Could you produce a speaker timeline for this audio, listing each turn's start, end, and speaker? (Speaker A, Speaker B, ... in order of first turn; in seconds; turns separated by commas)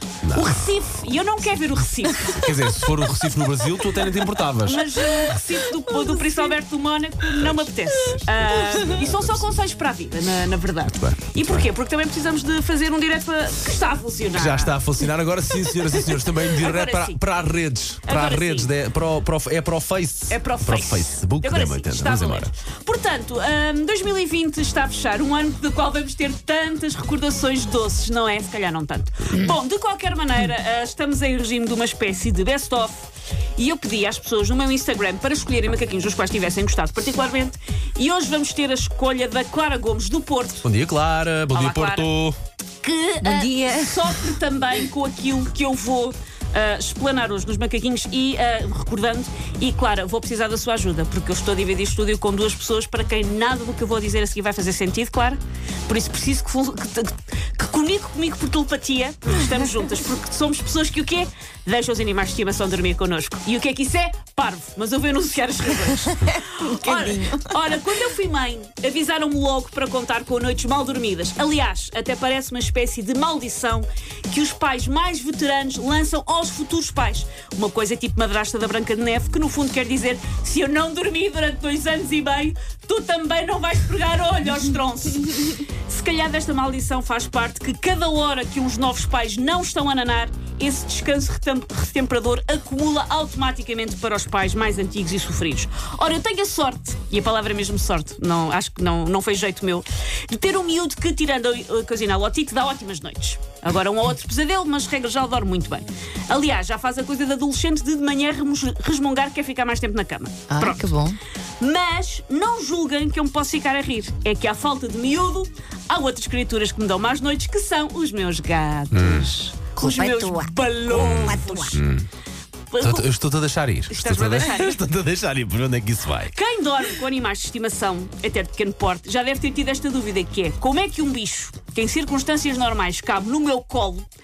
Speaker A: 0.2-0.8, Speaker B: 0.3-2.5, Speaker A: 2.3-4.9, Speaker B: 4.6-14.8, Speaker A: 7.3-9.6, Speaker A: 10.9-11.7, Speaker A: 14.3-22.5, Speaker B: 16.4-17.2, Speaker B: 18.1-18.7, Speaker B: 20.3-40.6, Speaker A: 40.6-42.4, Speaker B: 41.5-42.1, Speaker B: 42.8-110.9, Speaker C: 43.2-44.2, Speaker C: 66.3-67.6, Speaker C: 110.5-111.2, Speaker B: 111.6-121.8, Speaker A: 118.9-119.3, Speaker C: 119.8-121.8, Speaker A: 120.9-122.1, Speaker B: 122.7-123.1, Speaker A: 122.8-126.3, Speaker B: 123.9-124.8, Speaker B: 126.3-134.1